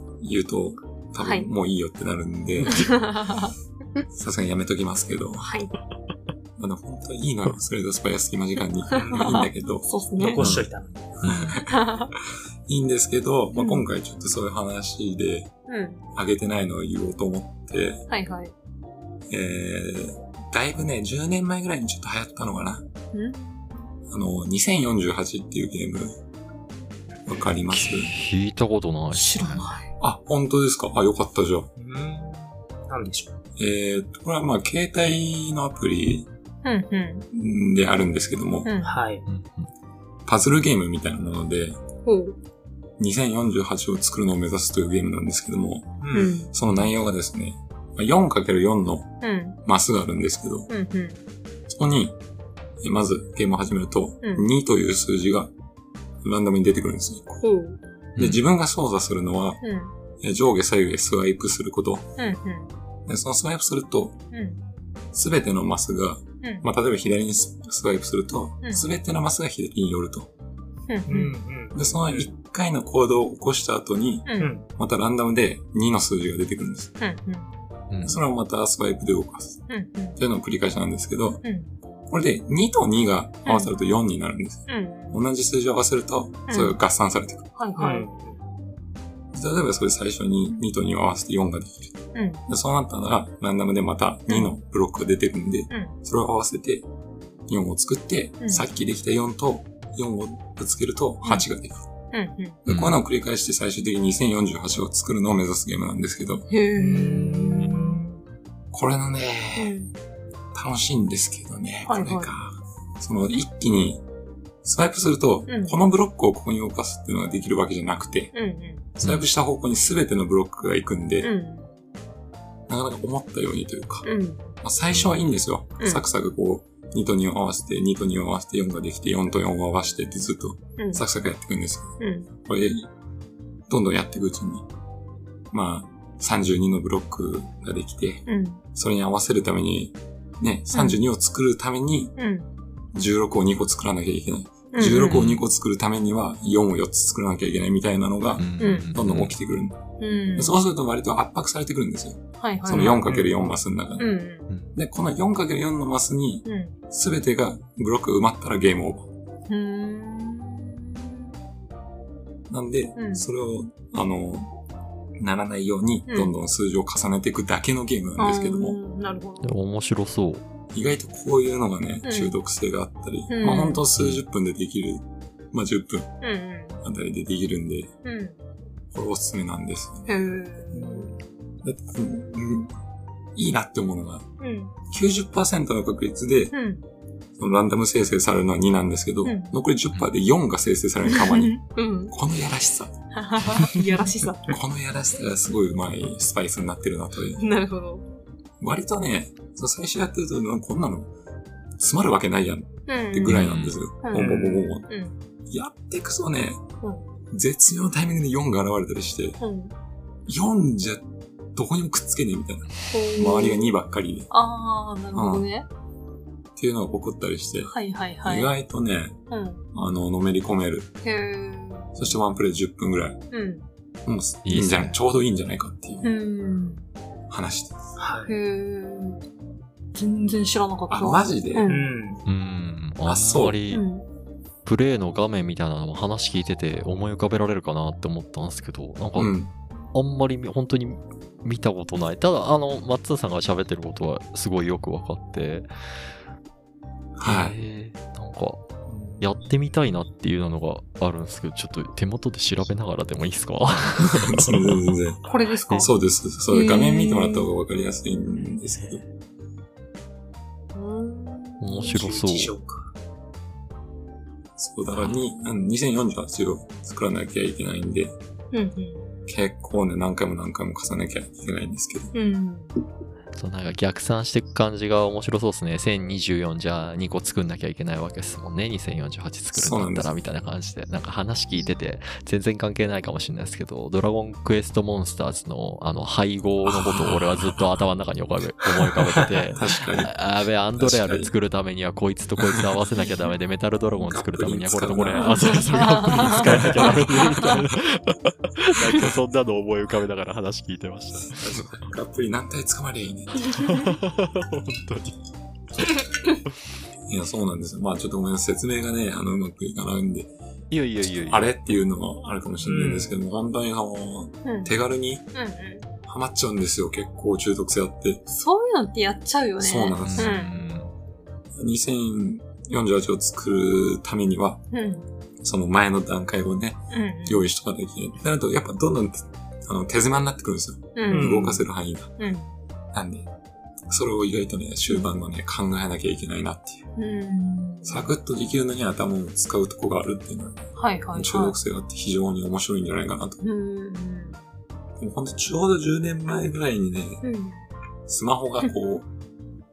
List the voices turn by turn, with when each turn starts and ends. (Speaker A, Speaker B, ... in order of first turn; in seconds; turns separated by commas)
Speaker A: 0.2-3.0, Speaker B: 1.2-1.5, Speaker B: 2.6-3.5, Speaker A: 4.1-5.6, Speaker B: 5.4-5.7, Speaker A: 6.6-10.7, Speaker B: 8.9-10.6, Speaker C: 8.9-9.4, Speaker C: 10.2-11.2, Speaker A: 11.2-11.8, Speaker D: 11.2-11.6, Speaker B: 11.6-12.1, Speaker A: 12.7-15.5, Speaker B: 13.5-13.8, Speaker B: 15.7-16.0, Speaker A: 16.1-18.0, Speaker B: 18.1-18.5, Speaker A: 19.3-22.8, Speaker B: 23.1-23.9, Speaker A: 24.1-26.2, Speaker A: 27.2-28.1, Speaker D: 27.7-29.7, Speaker B: 29.1-29.9, Speaker A: 30.0-31.7, Speaker C: 31.8-33.4, Speaker A: 33.6-36.3, Speaker B: 36.6-37.3, Speaker A: 37.3-38.7, Speaker B: 38.6-39.0, Speaker C: 38.8-39.2, Speaker D: 39.2-39.7, Speaker A: 40.2-41.8, Speaker B: 42.0-42.4, Speaker A: 43.0-50.7, Speaker C: 46.0-46.4, Speaker B: 46.1-46.5, Speaker B: 49.2-49.6, Speaker B: 50.7-51.2, Speaker A: 51.7-52.2, Speaker A: 52.8-55.5, Speaker B: 54.2-54.5, Speaker A: 56.2-57.4, Speaker B: 57.4-57.8, Speaker D: 58.1-58.4, Speaker A: 58.2-59.6, Speaker B: 59.6-59.9, Speaker A: 60.2-62.1, Speaker B: 62.2-62.7, Speaker A: 63.0-64.2, Speaker B: 64.3-64.6, Speaker A: 65.1-70.3, Speaker B: 68.6-68.9, Speaker B: 70.9-71.4, Speaker C: 71.1-72.3, Speaker A: 71.7-76.9, Speaker B: 74.2-74.5, Speaker C: 74.4-74.7, Speaker B: 77.0-77.5, Speaker D: 77.9-78.2, Speaker A: 78.0-79.6, Speaker B: 79.7-80.2, Speaker A: 80.2-81.4, Speaker B: 81.4-81.7, Speaker A: 82.1-87.5, Speaker B: 83.4-83.7, Speaker B: 84.7-85.2, Speaker B: 86.5-86.8, Speaker B: 87.5-88.1, Speaker C: 87.8-88.4, Speaker A: 89.3-91.9, Speaker B: 92.1-92.4, Speaker A: 92.5-96.8, Speaker A: 97.5-101.8, Speaker B: 102.1-102.6, Speaker A: 102.6-106.5, Speaker D: 102.7-103.0, Speaker B: 106.5-108.0, Speaker C: 106.8-108.2, Speaker A: 108.7-109.8, Speaker B: 109.5-109.9, Speaker A: 110.5-114.0, Speaker B: 111.9-112.3, Speaker A: 114.6-118.3, Speaker B: 115.5-115.8, Speaker B: 118.3-118.9, Speaker A: 119.0-121.3, Speaker D: 119.0-119.3, Speaker B: 121.2-121.7, Speaker A: 122.7-124.0, Speaker B: 124.0-124.5, Speaker A: 124.6-132.9, Speaker B: 130.8-131.0, Speaker B: 132.0-132.3, Speaker A: 133.7-134.7, Speaker A: 135.5-142.2, Speaker B: 138.2-138.6, Speaker B: 140.7-141.0, Speaker B: 142.2-142.5, Speaker A: 142.9-154.1, Speaker B: 144.7-145.2, Speaker D: 145.1-145.4, Speaker D: 148.4-149.3, Speaker B: 148.6-148.9, Speaker B: 150.0-150.6, Speaker B: 152.4-153.1, Speaker C: 152.7-153.5, Speaker B: 154.0-154.5, Speaker A: 154.7-159.1, Speaker B: 156.4-156.7, Speaker B: 159.5-161.1, Speaker A: 162.5-164.6, Speaker B: 162.9-163.3, Speaker A: 165.2-168.8, Speaker B: 168.2-169.5, Speaker D: 169.4-170.4, Speaker A: 170.7-176.1, Speaker B: 172.0-172.3, Speaker B: 173.3-173.8, Speaker D: 173.9-174.2, Speaker B: 176.2-176.8, Speaker A: 176.8-177.9, Speaker B: 178.0-178.4, Speaker A: 178.9-180.1, Speaker B: 180.1-181.1, Speaker C: 180.7-181.2, Speaker A: 181.6-182.7, Speaker A: 183.3-184.3, Speaker B: 184.4-184.7, Speaker A: 184.9-186.5, Speaker B: 186.5-186.8, Speaker A: 187.4-192.9, Speaker B: 189.2-189.6, Speaker B: 191.1-192.1, Speaker B: 193.1-194.6, Speaker A: 194.4-197.4, Speaker B: 197.4-198.1, Speaker A: 198.6-201.1, Speaker A: 201.8-204.9, Speaker B: 202.9-203.4, Speaker D: 203.3-203.8, Speaker B: 204.0-205.2, Speaker C: 204.1-204.6, Speaker A: 205.5-206.6, Speaker A: 207.3-209.4, Speaker B: 209.4-209.7, Speaker A: 210.2-214.3, Speaker B: 212.9-213.7, Speaker B: 214.3-215.7, Speaker A: 215.1-215.4, Speaker A: 216.6-219.2, Speaker B: 217.7-218.5, Speaker B: 219.3-219.6, Speaker A: 219.7-220.9, Speaker B: 221.0-222.0, Speaker A: 221.9-223.2, Speaker B: 223.3-223.7, Speaker A: 224.0-226.1, Speaker D: 224.4-225.0, Speaker B: 226.0-226.9, Speaker A: 227.3-227.8, Speaker C: 228.0-228.3, Speaker B: 228.3-229.2, Speaker B: 229.9-231.9, Speaker A: 230.9-231.7, Speaker C: 231.7-232.2, Speaker D: 232.2-233.8, Speaker A: 233.0-233.6, Speaker B: 233.7-234.1, Speaker D: 234.6-239.3, Speaker A: 239.2-239.5, Speaker D: 239.9-245.7, Speaker A: 247.2-247.6, Speaker D: 247.2-248.7, Speaker C: 248.9-249.2, Speaker D: 249.2-254.7, Speaker A: 254.0-259.0, Speaker B: 255.3-255.9, Speaker B: 256.5-257.5, Speaker B: 260.7-262.0, Speaker D: 261.6-262.5, Speaker C: 261.8-262.9, Speaker A: 264.6-268.1, Speaker B: 268.5-269.1, Speaker A: 269.3-272.1, Speaker B: 272.1-272.7, Speaker D: 273.3-301.6, Speaker A: 279.5-280.2, Speaker A: 286.6-287.6, Speaker A: 289.5-291.3, Speaker A: 292.4-292.7, Speaker A: 294.0-297.2, Speaker B: 295.2-297.6, Speaker A: 298.9-299.1, Speaker A: 301.3-303.5, Speaker D: 303.6-305.2, Speaker A: 307.1-310.3, Speaker D: 310.7-311.5, Speaker A: 311.0-315.2, Speaker C: 312.6-313.2, Speaker B: 314.4-314.7, Speaker B: 315.3-315.9, Speaker A: 316.1-318.2, Speaker B: 318.3-320.5, Speaker A: 319.6-320.4, Speaker D: 320.0-320.9, Speaker A: 321.5-324.6, Speaker B: 324.7-325.1, Speaker A: 325.4-332.1, Speaker B: 326.9-327.4, Speaker B: 330.9-331.4, Speaker C: 331.1-331.6, Speaker B: 332.2-332.5, Speaker A: 332.9-333.3, Speaker A: 333.9-336.9, Speaker B: 337.0-338.1, Speaker A: 337.8-343.4, Speaker B: 340.8-341.6, Speaker B: 343.4-344.4, Speaker A: 345.0-347.2, Speaker B: 347.2-347.6, Speaker A: 348.1-349.1